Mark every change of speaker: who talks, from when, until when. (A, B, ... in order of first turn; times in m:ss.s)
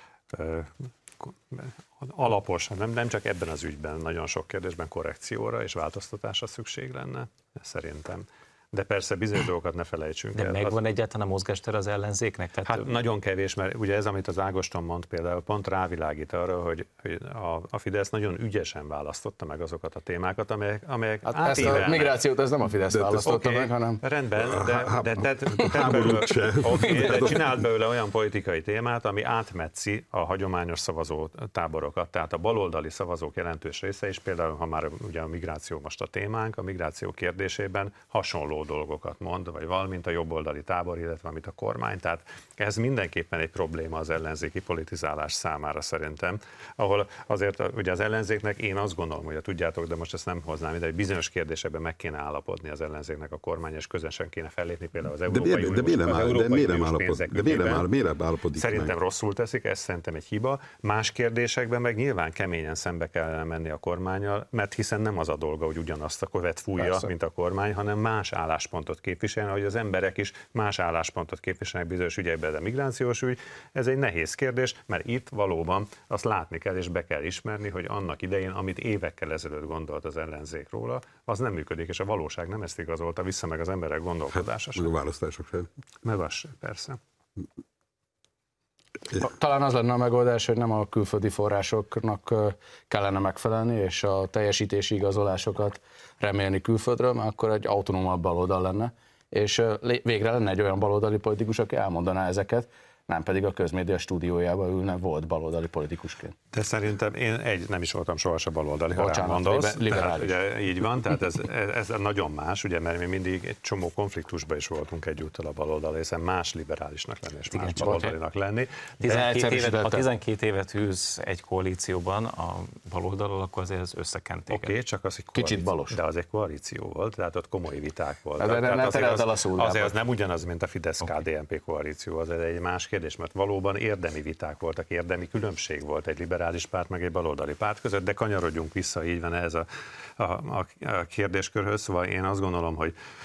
0:00.3-0:10.8 A
0:10.3-0:12.8 B
0:12.6-0:22.2 A
0:21.3-0:24.0 C
0:22.9-0:23.2 D
0:23.2-0:57.8 A
0:24.4-0:27.6 D
0:55.3-0:58.9 D
0:58.5-1:24.9 A
1:24.3-1:25.7 D
1:26.0-1:27.0 A
1:29.2-1:46.3 C
1:46.5-1:58.9 A
1:48.9-1:50.3 C
1:57.5-1:58.2 B
1:59.0-2:04.7 B
1:59.0-2:00.1 C
2:04.5-2:22.9 A
2:05.3-2:06.0 C
2:08.4-2:10.0 C